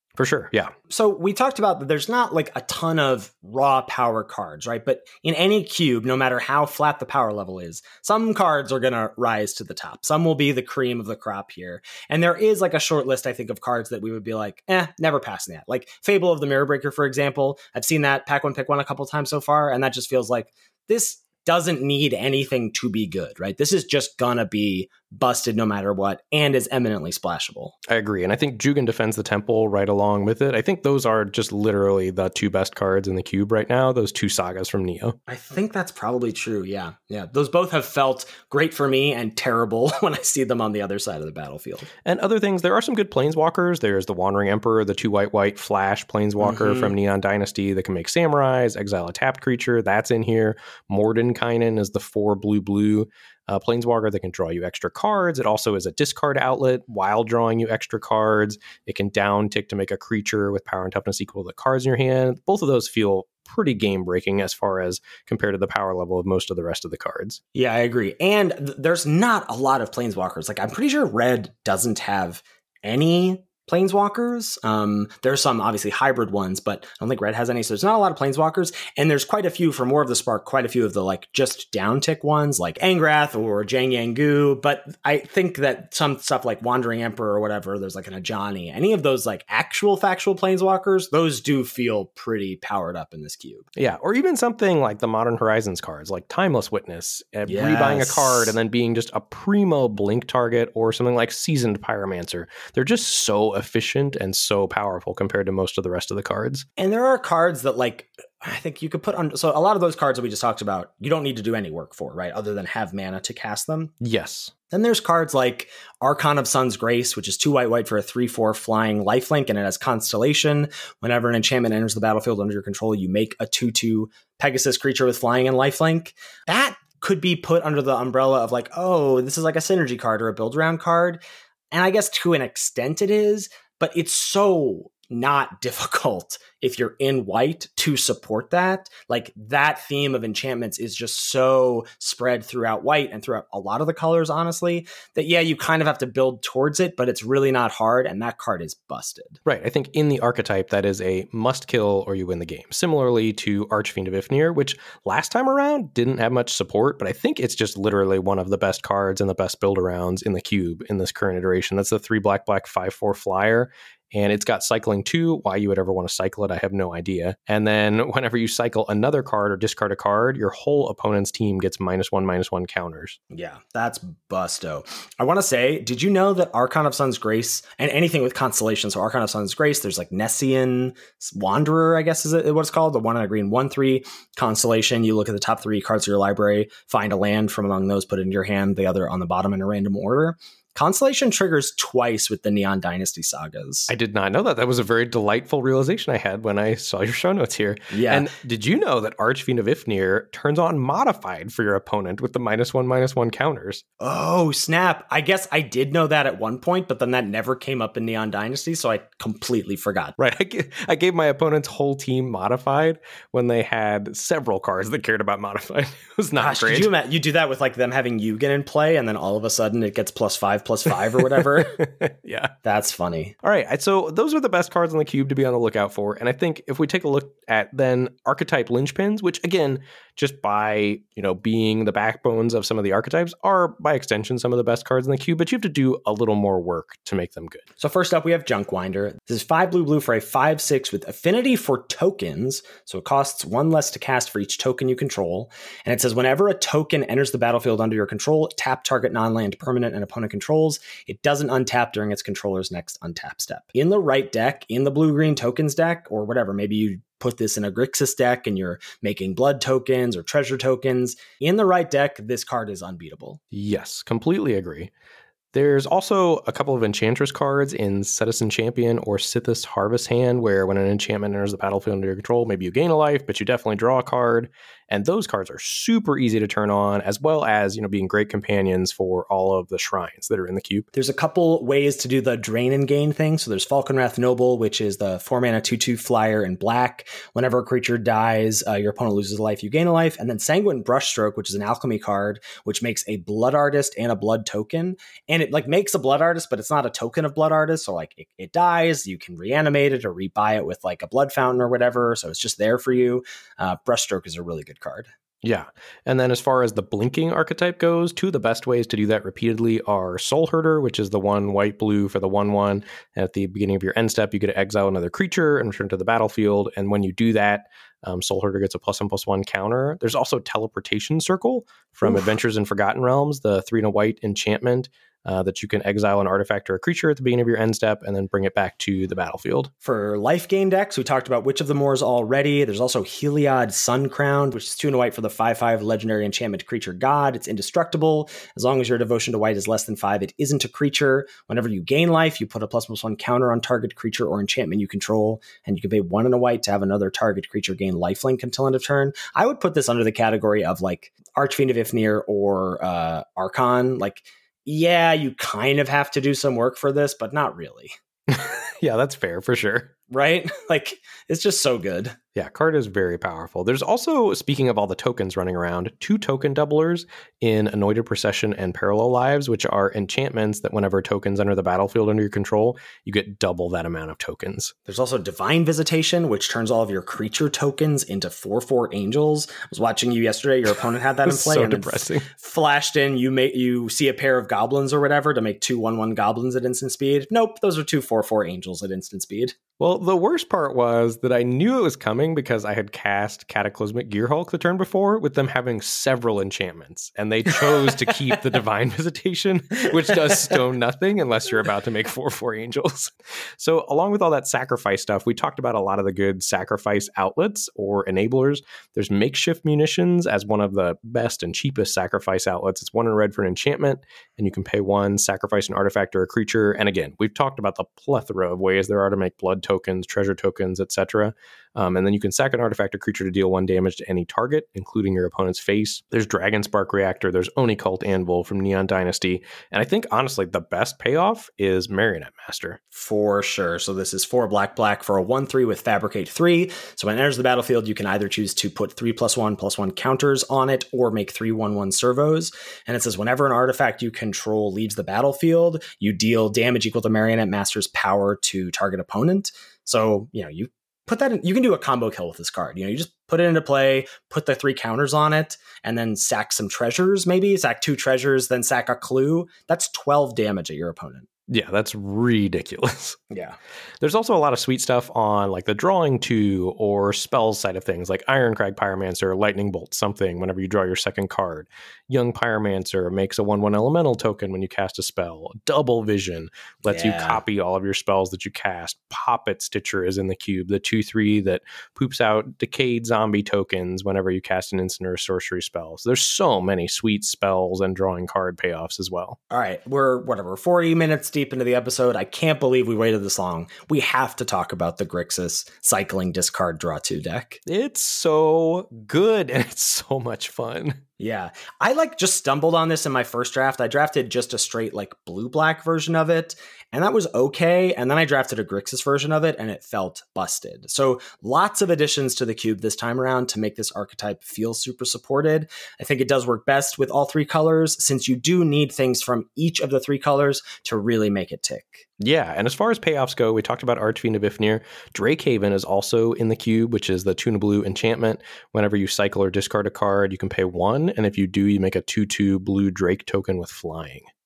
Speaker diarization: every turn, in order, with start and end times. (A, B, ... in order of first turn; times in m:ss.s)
0:00.2-0:00.7 A
0:00.9-0:27.8 B
0:27.9-0:35.2 A
0:35.3-0:41.9 B
0:42.0-1:07.4 A
0:46.4-0:47.0 B
1:07.6-1:33.7 B
1:33.8-1:46.6 A
1:37.5-1:38.6 B
1:46.8-1:53.9 B
1:54.0-1:54.5 A
1:54.7-2:11.2 B
2:11.7-2:29.4 B
2:29.5-2:53.2 A
2:53.3-3:13.9 B
3:13.9-3:23.8 A
3:17.9-3:18.3 B
3:24.0-3:30.2 B
3:30.2-3:36.9 A
3:36.4-3:41.8 B
3:41.6-3:42.5 A
3:42.6-3:43.4 B
3:43.4-3:57.6 A
3:57.8-4:23.4 B
4:23.5-4:24.9 A
4:25.5-4:40.9 A
4:40.9-5:05.1 B
5:05.4-5:29.7 A
5:29.8-5:57.9 B
5:58.3-5:59.9 A
6:00.1-6:02.2 B
6:02.4-6:14.7 A
6:14.9-6:29.6 B
6:21.2-6:22.2 A
6:29.8-7:12.8 A
7:12.9-7:41.3 B
7:41.5-7:43.2 A
7:43.3-7:43.6 B
7:44.0-8:09.4 A
7:56.9-7:57.4 B
8:09.5-8:17.6 B
8:17.7-8:21.0 A
8:21.2-8:42.1 B
8:42.2-8:54.3 A